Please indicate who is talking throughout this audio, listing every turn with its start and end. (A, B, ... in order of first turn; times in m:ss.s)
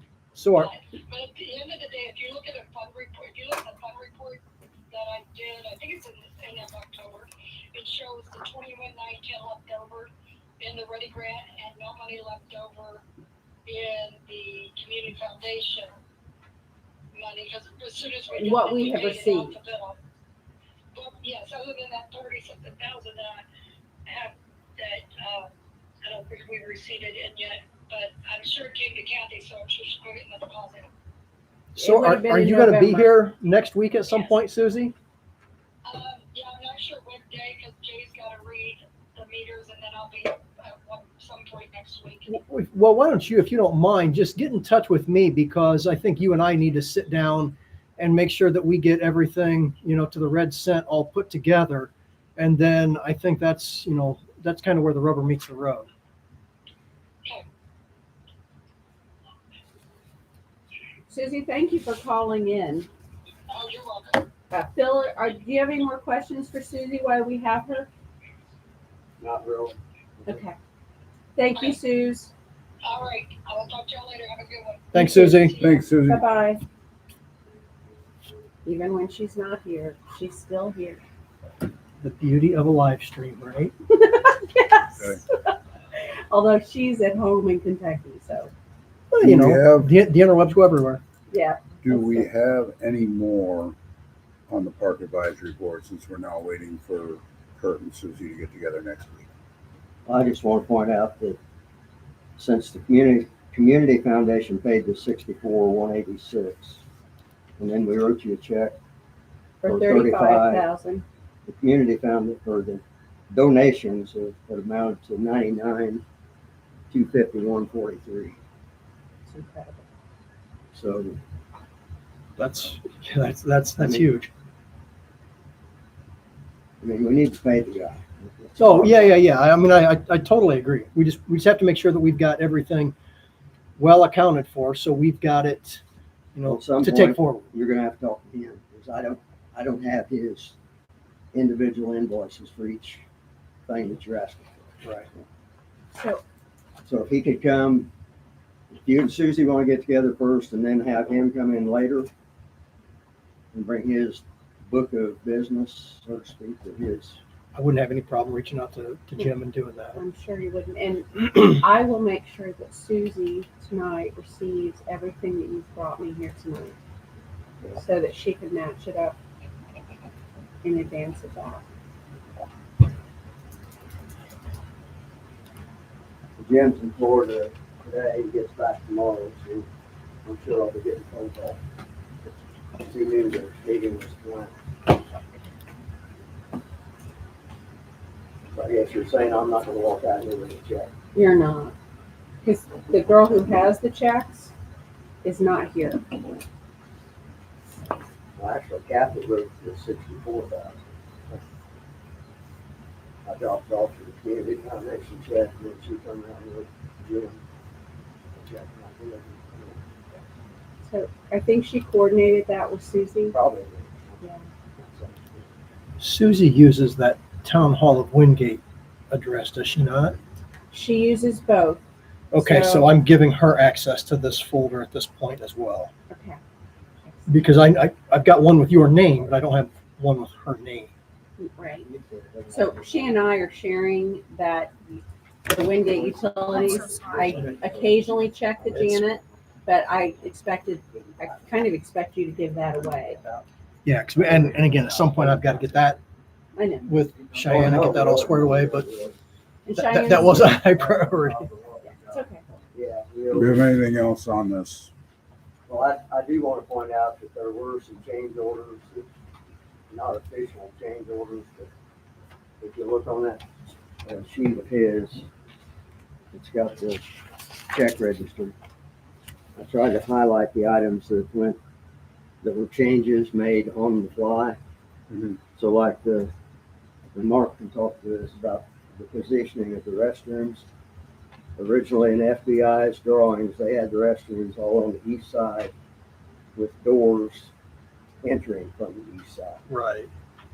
0:00.3-0:00.7 A
0:00.5-0:13.0 B
0:13.7-0:15.9 B
0:17.1-0:20.0 B
0:18.3-0:19.6 C
0:20.9-0:23.4 B
0:24.1-0:25.5 B
0:26.0-0:30.9 B
0:31.8-0:34.9 A
0:31.8-0:33.1 C
0:34.1-0:34.4 B
0:35.8-0:42.3 B
0:42.3-0:55.9 A
1:01.1-1:02.9 C
1:03.5-1:04.3 B
1:04.5-1:07.9 C
1:09.2-1:10.4 D
1:10.3-1:10.6 C
1:11.4-1:12.3 C
1:12.8-1:15.8 B
1:14.9-1:15.6 A
1:14.9-1:16.6 C
1:15.5-1:16.2 E
1:18.6-1:21.0 C
1:22.0-1:23.7 A
1:23.9-1:25.6 C
1:26.3-1:28.5 C
1:29.1-1:31.0 A
1:29.2-1:29.9 E
1:31.3-1:32.3 C
1:31.8-1:33.8 E
1:34.5-1:39.3 E
1:40.1-1:41.4 D
1:42.4-1:46.8 D
1:47.6-1:48.8 D
1:49.6-1:51.0 C
1:49.6-1:50.6 D
1:51.5-1:56.0 D
1:56.9-1:58.4 D
1:59.3-1:59.9 C
2:00.7-2:01.2 D
2:02.4-2:04.3 A
2:03.8-2:04.0 D
2:06.8-2:09.1 D
2:08.6-2:13.0 A
2:13.8-2:15.8 A
2:16.4-2:17.4 A
2:16.5-2:20.6 D
2:21.3-2:23.0 D
2:23.7-2:24.7 D
2:24.8-2:25.1 A
2:25.9-2:26.2 C
2:26.9-2:27.9 D
2:28.7-2:32.1 D
2:33.5-2:37.2 D
2:37.5-2:40.0 A
2:40.0-2:46.8 C
2:47.7-2:49.2 C
2:50.6-2:51.6 C
2:56.4-2:59.7 D
3:00.2-3:01.6 D
3:02.8-3:04.5 D
3:08.5-3:10.9 D
3:11.1-3:11.7 C
3:12.4-3:14.5 C
3:15.2-3:16.3 C
3:18.4-3:21.4 D
3:23.2-3:27.4 D
3:28.4-3:30.2 D
3:30.8-3:33.4 C
3:33.3-3:35.5 D
3:34.2-3:34.5 C
3:36.0-3:40.2 A
3:40.7-3:41.8 C
3:42.3-3:45.9 A
3:42.4-3:43.0 C
3:46.1-3:46.4 C
3:47.0-3:47.4 C
3:47.3-3:50.9 A
3:51.4-3:51.9 C
3:51.8-3:53.3 D
3:52.5-4:03.2 C
3:55.9-3:59.2 D
4:00.9-4:01.6 D
4:02.8-4:03.5 D
4:03.8-4:06.0 A
4:04.2-4:05.4 D
4:06.6-4:06.9 C
4:06.8-4:08.9 A
4:07.4-4:09.2 D
4:09.7-4:10.5 C
4:09.8-4:11.5 A
4:10.3-4:13.7 D
4:11.8-4:12.4 C
4:13.3-4:14.9 E
4:15.7-4:19.1 D
4:19.9-4:21.7 D
4:22.6-4:25.3 D
4:26.3-4:27.0 D
4:27.7-4:28.5 D
4:29.6-4:31.6 D
4:32.4-4:34.6 D
4:35.1-4:35.4 E
4:35.6-4:36.3 D
4:37.1-4:40.7 D
4:41.6-4:45.7 D
4:46.6-4:47.5 D
4:48.2-4:49.6 D
4:49.7-4:50.1 A